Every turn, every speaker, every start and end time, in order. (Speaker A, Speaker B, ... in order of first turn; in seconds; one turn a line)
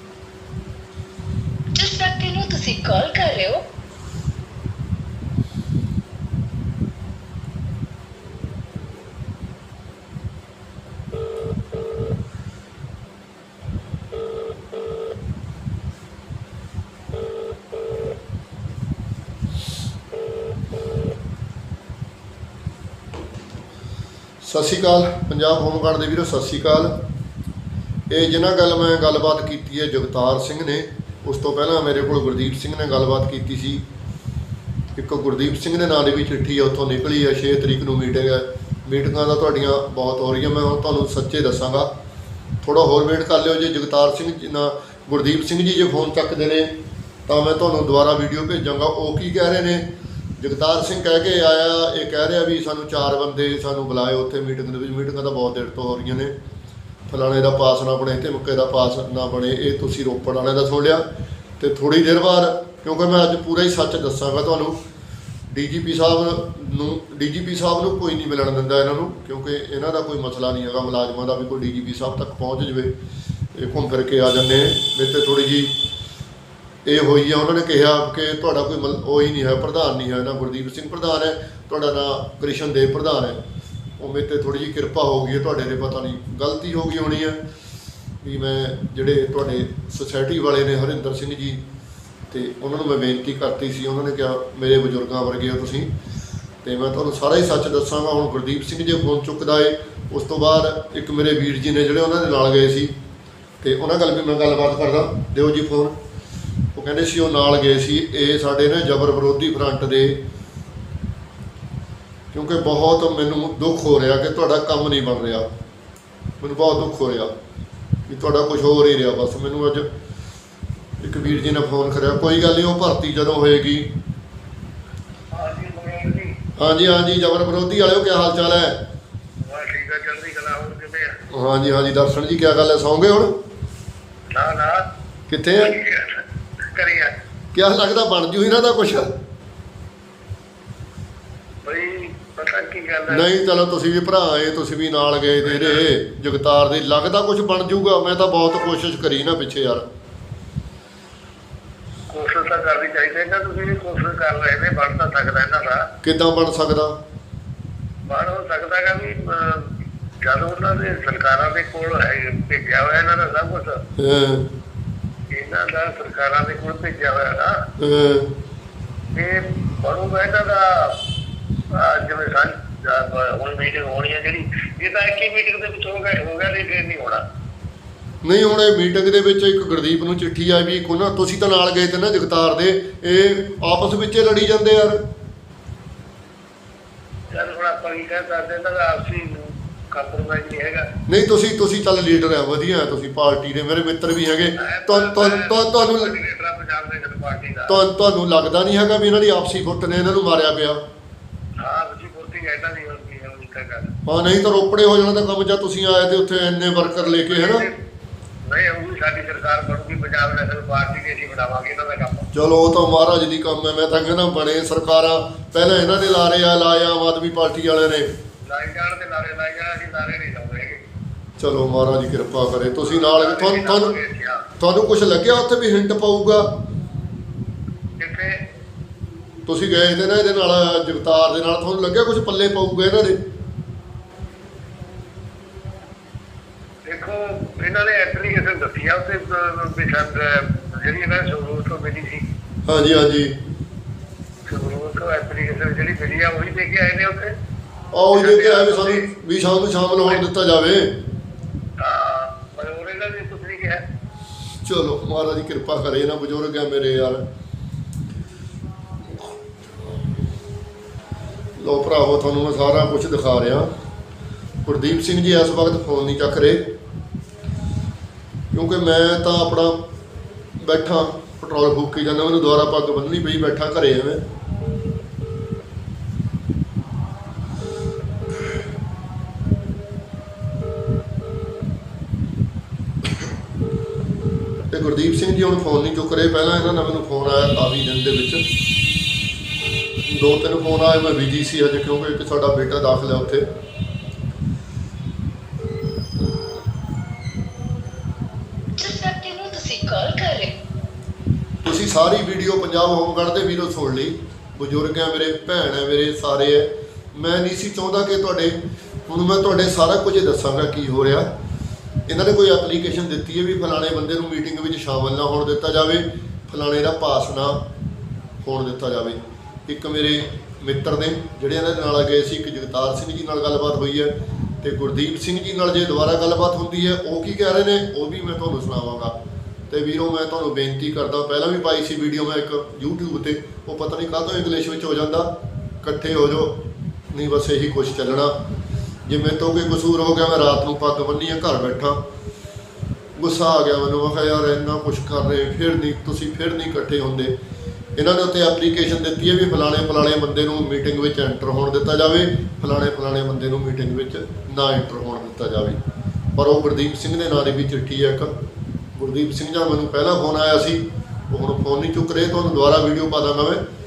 Speaker A: 1.7-3.6
Speaker B: 24.4-27.0
Speaker B: 28.1-33.8
Speaker B: 35.0-41.9
Speaker B: 42.6-46.7
Speaker B: 47.3-49.9
Speaker B: 50.4-56.3
Speaker B: 57.1-61.0
Speaker B: 61.6-64.8
Speaker B: 65.5-72.9
Speaker B: 73.5-75.7
Speaker B: 76.9-83.4
Speaker B: 84.0-87.4
Speaker B: 88.2-91.6
Speaker B: 92.3-95.9
Speaker B: 96.6-102.9
Speaker B: 103.6-106.0
Speaker B: 106.8-110.2
Speaker B: 112.3-115.5
Speaker B: 116.4-117.3
Speaker B: 118.1-119.9
Speaker B: 121.0-123.9
Speaker C: 125.3-126.4
Speaker B: 126.6-128.8
Speaker C: 129.5-131.1
Speaker B: 131.3-133.4
Speaker C: 134.3-134.8
Speaker B: 135.3-135.8
Speaker C: 135.6-137.1
Speaker B: 137.5-139.1
Speaker C: 141.7-143.3
Speaker B: 143.1-149.9
Speaker C: 145.5-145.8
Speaker C: 152.1-155.8
Speaker B: 156.0-156.9
Speaker C: 158.1-159.7
Speaker C: 160.2-163.8
Speaker B: 164.0-164.5
Speaker C: 165.3-167.6
Speaker B: 167.8-168.3
Speaker C: 169.1-171.0
Speaker C: 171.7-177.2
Speaker B: 178.2-185.0
Speaker C: 187.3-190.8
Speaker B: 191.1-196.1
Speaker C: 194.6-197.8
Speaker B: 197.7-200.8
Speaker C: 201.6-203.9
Speaker B: 204.1-207.7
Speaker C: 207.3-207.8
Speaker C: 208.5-212.3
Speaker B: 212.3-218.1
Speaker C: 218.5-220.8
Speaker B: 221.4-224.0
Speaker C: 222.8-224.4
Speaker B: 224.6-226.5
Speaker C: 228.0-228.4
Speaker B: 229.5-233.2
Speaker C: 236.8-242.2
Speaker B: 242.7-243.4
Speaker C: 244.5-247.3
Speaker B: 247.9-251.0
Speaker C: 248.1-249.1
Speaker C: 251.8-253.8
Speaker B: 254.6-257.3
Speaker B: 261.6-263.7
Speaker B: 264.6-266.7
Speaker B: 268.5-269.8
Speaker B: 270.6-274.2
Speaker B: 284.7-288.5
Speaker B: 290.1-293.5
Speaker A: 298.8-300.6
Speaker B: 301.6-311.3
Speaker B: 312.1-317.6
Speaker B: 318.4-329.1
Speaker B: 329.7-336.6
Speaker B: 337.1-338.4
Speaker B: 339.1-342.0
Speaker B: 343.1-347.3
Speaker B: 348.0-355.8
Speaker B: 356.4-358.3
Speaker B: 359.0-363.6